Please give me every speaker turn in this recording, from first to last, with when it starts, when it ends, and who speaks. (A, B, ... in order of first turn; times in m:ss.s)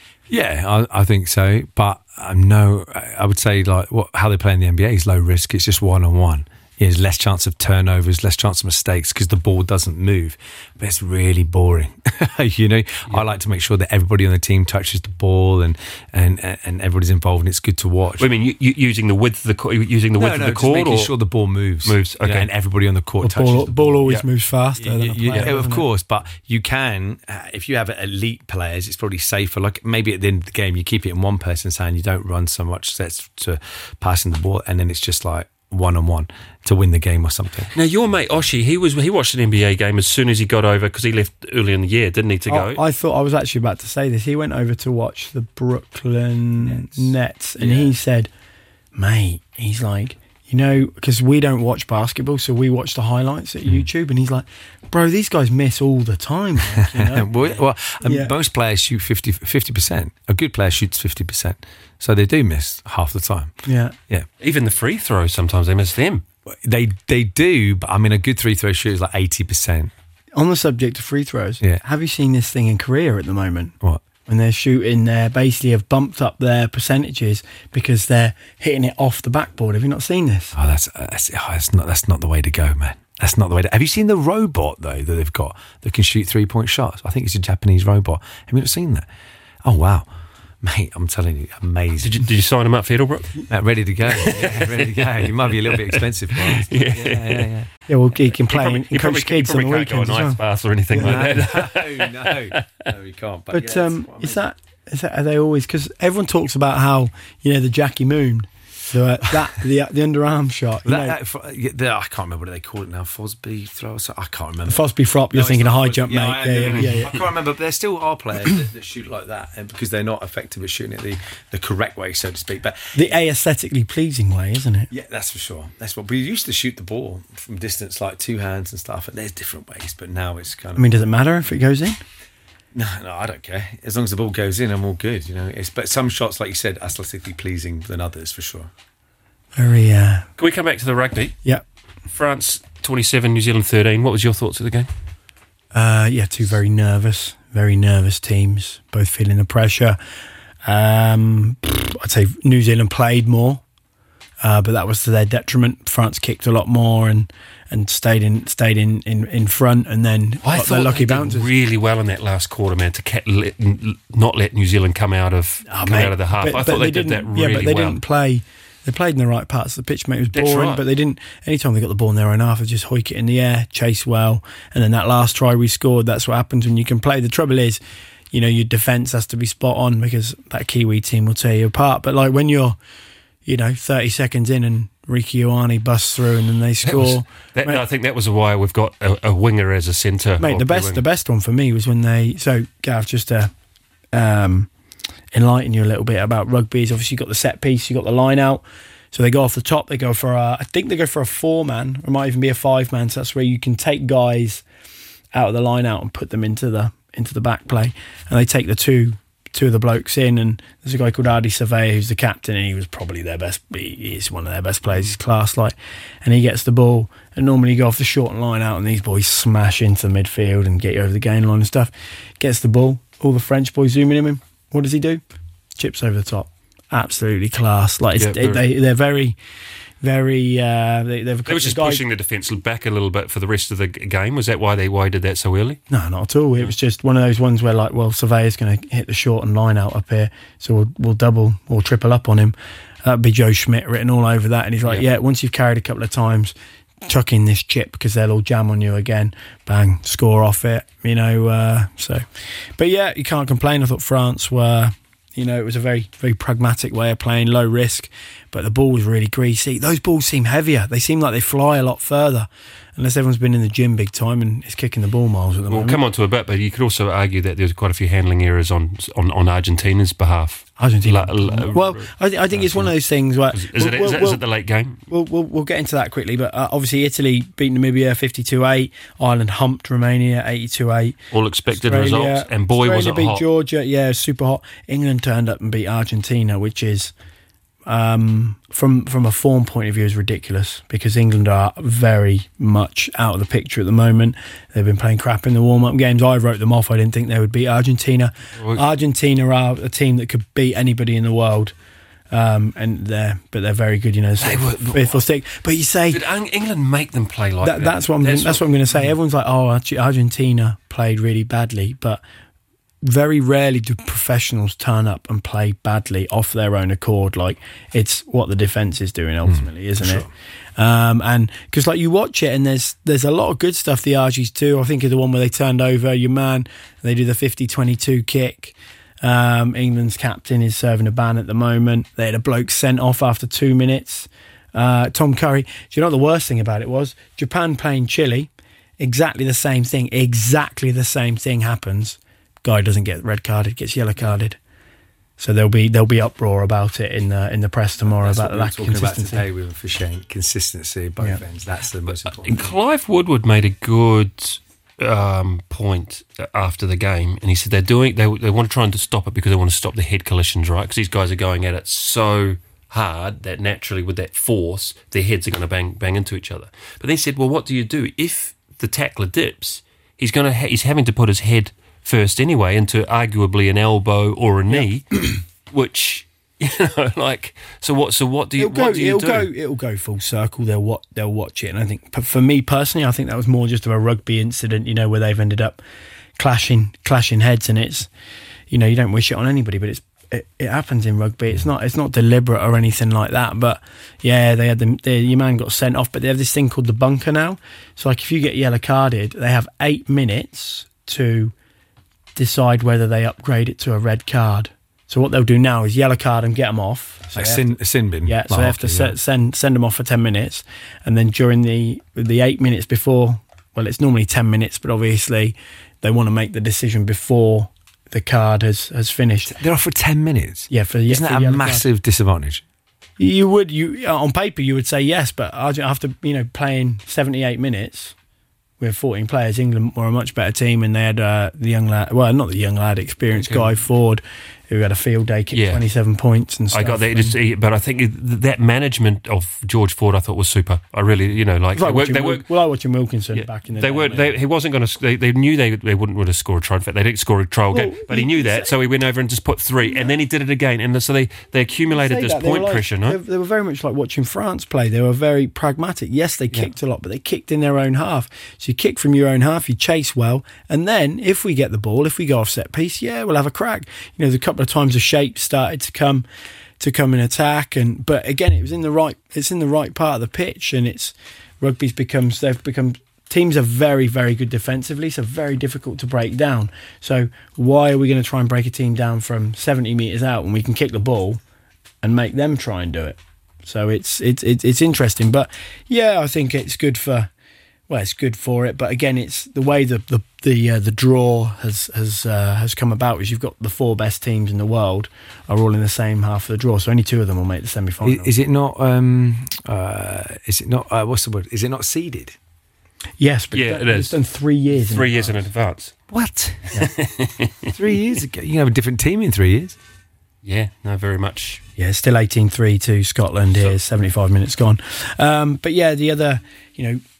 0:00.3-0:18.3 A
0:18.2-0:21.1 B
0:20.2-0:24.1 A
0:21.8-0:22.5 B
0:23.2-0:25.8 C
0:24.8-0:37.7 A
0:37.8-0:42.8 B
0:42.5-0:48.3 C
0:46.7-0:47.0 A
0:49.0-0:57.3 C
0:56.7-1:04.3 A
0:58.0-0:58.3 C
1:03.6-1:04.0 C
1:04.4-1:06.2 B
1:06.5-1:09.9 A
1:10.4-1:13.7 C
1:14.3-1:20.6 C
1:20.6-1:29.1 A
1:29.6-1:30.1 A
1:30.6-1:32.2 A
1:32.0-1:33.5 B
1:33.5-1:37.7 A
1:34.2-1:37.5 B
1:37.9-1:40.4 C
1:38.4-1:42.8 B
1:40.9-1:41.2 C
1:41.0-1:44.4 A
1:43.5-1:51.2 C
1:50.8-2:03.2 A
1:54.7-1:57.1 C
2:02.9-2:04.9 C
2:04.9-2:11.1 A
2:10.8-2:12.0 C
2:12.7-2:18.7 A
2:19.6-2:20.3 C
2:20.4-2:21.4 B
2:22.1-2:24.9 B
2:25.7-2:30.0 C
2:30.6-2:33.6 C
2:34.4-2:41.5 C
2:40.4-2:48.0 B
2:45.7-2:57.8 C
2:50.3-2:50.8 B
2:58.3-3:02.8 C
3:03.4-3:07.8 C
3:06.8-3:11.0 B
3:10.4-3:13.5 C
3:14.1-3:14.7 C
3:15.3-3:24.6 C
3:25.4-3:45.2 C
3:45.8-3:49.4 C
3:48.2-3:48.6 B
3:50.0-3:52.0 C
3:51.5-3:55.8 B
3:55.9-4:06.6 C
4:07.1-4:26.0 C
4:25.7-4:32.9 B
4:30.8-4:34.4 C
4:33.5-4:35.0 B
4:35.1-4:41.2 C
4:41.3-4:43.4 B
4:41.7-4:47.1 C
4:47.9-5:01.7 C
4:58.6-4:58.8 B
5:02.3-5:06.2 C
5:04.4-5:05.2 B
5:06.1-5:09.1 B
5:07.6-5:12.2 C
5:13.0-5:44.6 C
5:19.4-5:20.3 A
5:45.4-5:49.4 C
5:48.2-5:52.8 A
5:52.1-6:19.5 B
6:18.6-6:25.8 C
6:26.4-6:28.1 C
6:28.7-6:41.5 C
6:42.4-6:59.5 C
6:47.3-6:49.2 A
6:59.5-7:02.6 A
7:00.7-7:01.8 C
7:03.2-7:08.1 C
7:08.8-7:17.4 C
7:13.3-7:13.7 B
7:15.5-7:15.8 B
7:16.7-7:22.5 B
7:21.8-7:24.3 C
7:23.3-7:33.2 B
7:27.7-7:28.7 C
7:29.8-7:30.1 C
7:31.9-7:46.2 C
7:46.8-8:01.4 C
8:02.0-8:07.3 C
8:07.9-8:18.3 C
8:18.0-8:22.4 A
8:23.2-8:25.3 C
8:23.5-8:26.0 B
8:26.1-8:26.9 A
8:26.9-8:27.7 B
8:27.7-8:29.8 A
8:30.4-8:31.6 B
8:31.8-8:37.0 C